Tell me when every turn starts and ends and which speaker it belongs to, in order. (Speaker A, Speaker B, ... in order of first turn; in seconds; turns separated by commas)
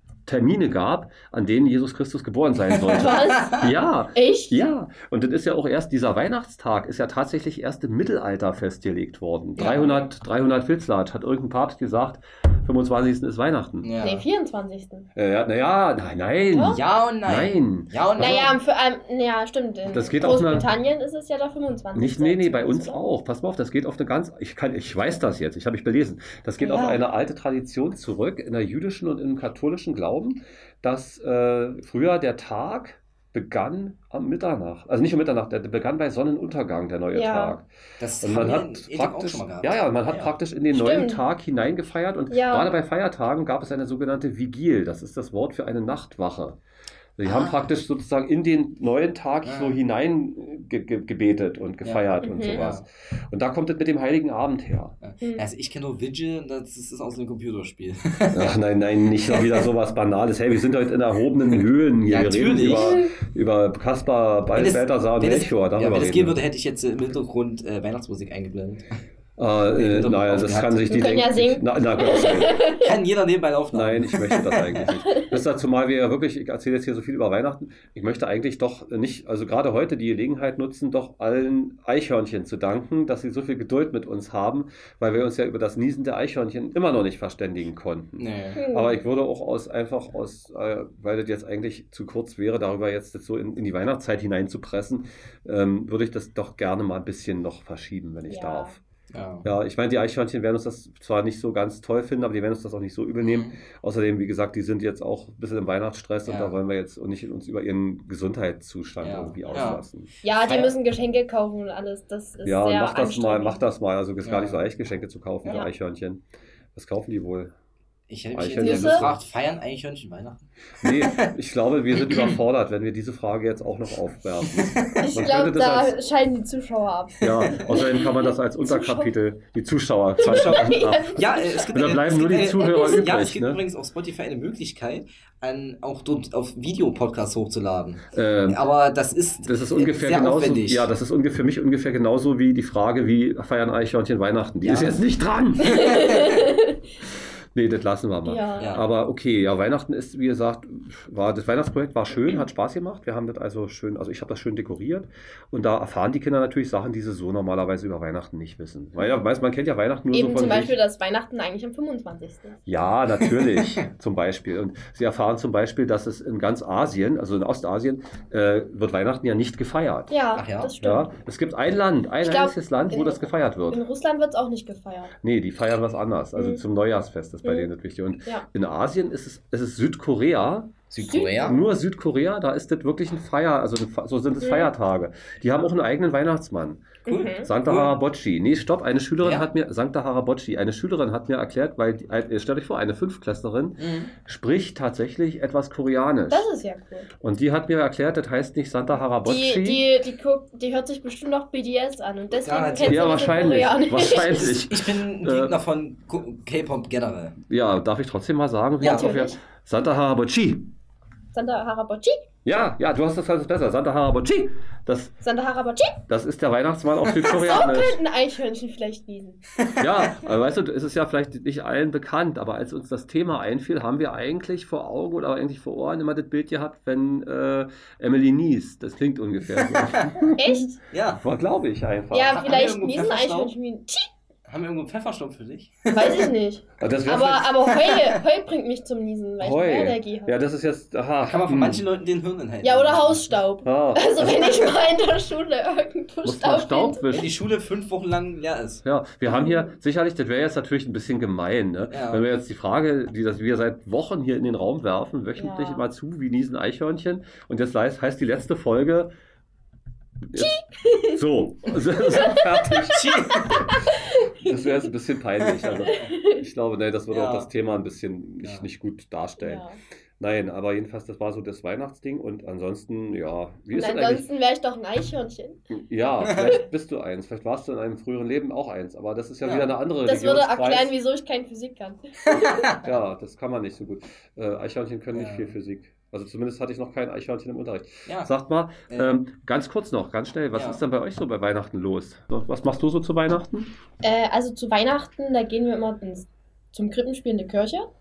Speaker A: 0.3-13.9, Speaker B: 2.8-4.6, Speaker C: 3.0-3.3, Speaker C: 9.6-9.9, Speaker B: 9.7-10.0, Speaker C: 13.8-14.2, Speaker B: 14.0-15.1, Speaker A: 15.2-18.5, Speaker B: 16.5-16.8, Speaker C: 16.7-18.6, Speaker B: 18.2-23.0, Speaker A: 19.9-20.7, Speaker A: 21.9-37.7, Speaker B: 26.6-27.0, Speaker B: 37.1-37.6, Speaker C: 38.0-40.4, Speaker A: 38.2-46.6, Speaker B: 40.7-41.2, Speaker B: 42.3-42.7, Speaker A: 47.2-55.0, Speaker C: 49.4-49.8, Speaker C: 51.8-52.9, Speaker B: 52.2-52.6, Speaker C: 55.0-58.6, Speaker A: 58.3-66.4, Speaker C: 59.3-59.6, Speaker C: 62.0-63.0, Speaker B: 62.7-63.1, Speaker C: 64.5-68.8, Speaker A: 69.4-72.6, Speaker C: 69.8-70.9, Speaker B: 70.9-73.0, Speaker C: 72.7-74.4, Speaker A: 73.7-98.8, Speaker B: 74.5-75.4, Speaker C: 88.2-88.6, Speaker B: 88.5-89.0, Speaker B: 98.3-98.8, Speaker C: 99.1-99.5, Speaker A: 99.5-110.1, Speaker C: 103.2-103.6, Speaker C: 106.2-106.6, Speaker C: 109.0-109.8, Speaker B: 109.5-113.6, Speaker C: 110.4-110.8, Speaker A: 112.4-116.2, Speaker C: 114.2-114.6, Speaker A: 116.8-117.5, Speaker C: 118.1-121.3, Speaker A: 118.3-119.2, Speaker B: 118.6-119.1, Speaker A: 120.8-126.0, Speaker C: 122.0-122.4, Speaker C: 124.5-125.0, Speaker B: 125.0-129.1, Speaker A: 127.2-133.6, Speaker B: 130.2-133.1, Speaker C: 130.2-140.9, Speaker A: 138.1-138.6, Speaker A: 139.4-146.1, Speaker C: 144.6-145.0, Speaker B: 145.6-146.8, Speaker A: 147.6-160.8, Speaker B: 148.2-148.8, Speaker C: 148.6-148.9, Speaker B: 160.1-162.6, Speaker A: 162.7-170.1, Speaker C: 163.2-163.6, Speaker B: 170.1-171.1, Speaker C: 170.4-170.7, Speaker A: 170.8-173.8, Speaker B: 172.2-175.1, Speaker A: 175.2-180.8, Speaker B: 176.4-176.6, Speaker C: 180.9-181.6, Speaker B: 181.0-181.7, Speaker A: 181.4-196.4, Speaker B: 184.4-184.7, Speaker B: 187.1-187.5, Speaker C: 187.1-187.9, Speaker C: 189.2-189.5, Speaker C: 193.8-194.1, Speaker B: 196.3-197.1, Speaker A: 197.2-199.8, Speaker B: 199.2-204.6, Speaker C: 202.3-203.1, Speaker A: 202.8-205.6, Speaker C: 204.4-207.4, Speaker A: 207.5-210.7, Speaker C: 208.8-209.1, Speaker B: 208.8-209.4, Speaker B: 211.3-212.2, Speaker A: 212.4-215.1, Speaker B: 215.2-216.0, Speaker A: 216.1-218.0, Speaker B: 217.3-219.4, Speaker A: 219.8-230.6, Speaker C: 229.6-230.1, Speaker B: 230.3-230.8, Speaker C: 230.9-231.2, Speaker A: 231.2-232.4, Speaker B: 232.1-234.1, Speaker C: 232.2-233.5, Speaker C: 234.5-236.2, Speaker B: 235.9-240.4, Speaker A: 236.8-237.6, Speaker A: 239.4-241.8, Speaker C: 241.2-243.2, Speaker B: 242.6-247.0, Speaker A: 243.6-244.7, Speaker A: 246.2-247.4, Speaker C: 247.1-248.8, Speaker A: 248.8-259.1, Speaker B: 249.3-249.7, Speaker C: 251.9-252.3, Speaker B: 255.4-255.9, Speaker A: 260.3-260.6, Speaker B: 260.4-261.2, Speaker A: 261.1-263.1, Speaker B: 262.1-264.7, Speaker C: 262.9-263.6, Speaker A: 264.4-269.6, Speaker B: 265.6-266.4, Speaker C: 267.1-267.5, Speaker B: 269.4-269.8, Speaker A: 270.2-274.3, Speaker B: 273.7-275.6, Speaker A: 275.7-280.9, Speaker C: 276.2-276.6, Speaker B: 276.2-276.6, Speaker C: 279.4-279.8, Speaker B: 280.0-282.8, Speaker C: 282.3-282.6, Speaker A: 282.8-293.7, Speaker C: 285.1-285.6, Speaker C: 288.1-288.3, Speaker C: 290.5-290.8, Speaker B: 294.0-297.9